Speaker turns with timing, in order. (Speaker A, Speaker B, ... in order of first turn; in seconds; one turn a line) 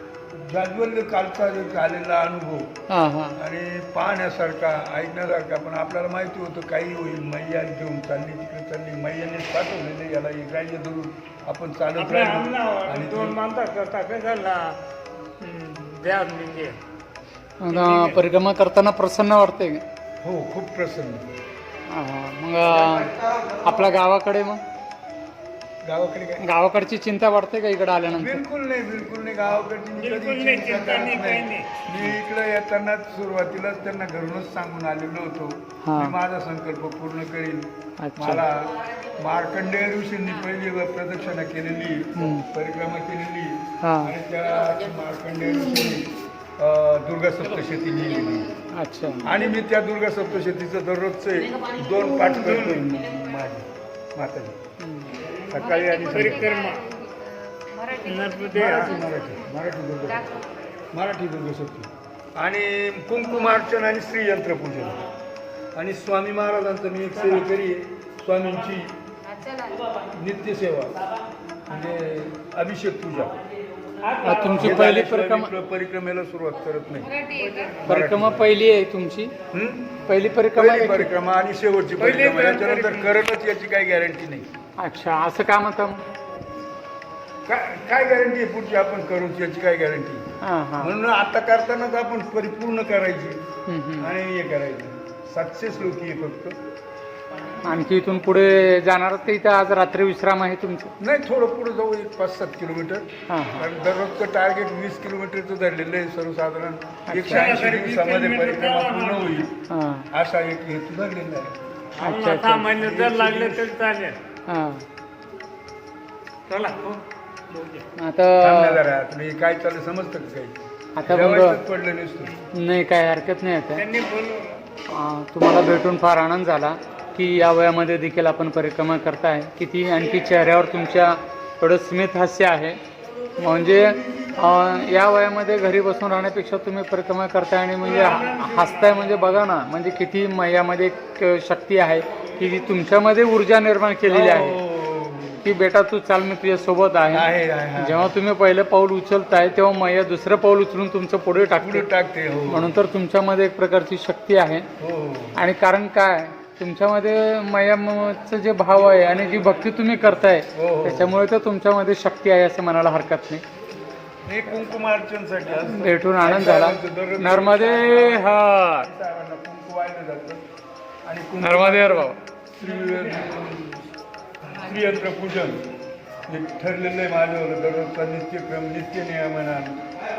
Speaker A: 0.3-2.7
Speaker B: 2.9-3.4
Speaker A: 3.4-13.4
Speaker C: 12.0-14.8
Speaker C: 15.4-16.8
Speaker B: 17.6-19.8
Speaker C: 17.6-18.2
Speaker A: 20.2-21.2
Speaker B: 21.9-24.6
Speaker A: 25.8-26.4
Speaker B: 26.4-28.4
Speaker A: 28.1-48.5
Speaker C: 30.0-31.7
Speaker B: 35.8-36.1
Speaker B: 38.0-38.5
Speaker B: 42.2-42.5
Speaker B: 43.8-44.1
Speaker B: 48.7-49.3
Speaker A: 49.2-54.6
Speaker C: 52.4-52.9
Speaker B: 54.8-55.2
Speaker A: 55.5-56.6
Speaker D: 55.5-59.5
Speaker C: 55.9-56.8
Speaker C: 58.0-59.0
Speaker A: 58.5-60.3
Speaker D: 60.1-60.5
Speaker A: 60.9-65.0
Speaker A: 65.8-68.9
Speaker D: 69.3-70.1
Speaker A: 70.1-71.0
Speaker A: 71.7-73.3
Speaker C: 74.1-74.6
Speaker B: 74.2-75.5
Speaker A: 74.5-77.2
Speaker D: 77.0-77.8
Speaker C: 77.3-77.9
Speaker A: 77.8-78.5
Speaker B: 77.8-79.3
Speaker A: 79.5-84.5
Speaker B: 80.0-81.1
Speaker C: 82.0-83.1
Speaker B: 84.8-86.0
Speaker A: 87.5-90.2
Speaker B: 90.4-90.9
Speaker A: 90.8-93.4
Speaker B: 93.7-94.1
Speaker A: 94.0-96.6
Speaker B: 97.6-100.9
Speaker A: 101.0-109.6
Speaker B: 103.3-103.7
Speaker B: 107.1-107.6
Speaker C: 107.3-109.5
Speaker B: 109.7-110.1
Speaker A: 110.1-111.6
Speaker C: 112.0-114.2
Speaker B: 112.0-112.7
Speaker A: 112.8-113.7
Speaker B: 114.5-114.8
Speaker C: 116.5-117.9
Speaker B: 118.0-118.8
Speaker A: 118.4-122.4
Speaker B: 121.0-121.6
Speaker B: 122.5-123.9
Speaker C: 123.8-124.6
Speaker B: 124.9-132.8
Speaker B: 133.4-144.6
Speaker C: 137.8-139.1
Speaker A: 144.1-145.5
Speaker B: 145.4-151.9
Speaker A: 147.1-148.1
Speaker A: 151.6-152.8
Speaker B: 152.5-154.7
Speaker A: 154.8-155.4
Speaker B: 155.4-163.4
Speaker A: 160.5-161.2
Speaker A: 164.2-170.4
Speaker B: 165.6-168.9
Speaker A: 171.1-173.8
Speaker B: 171.4-172.2
Speaker A: 174.5-175.6
Speaker A: 176.3-179.8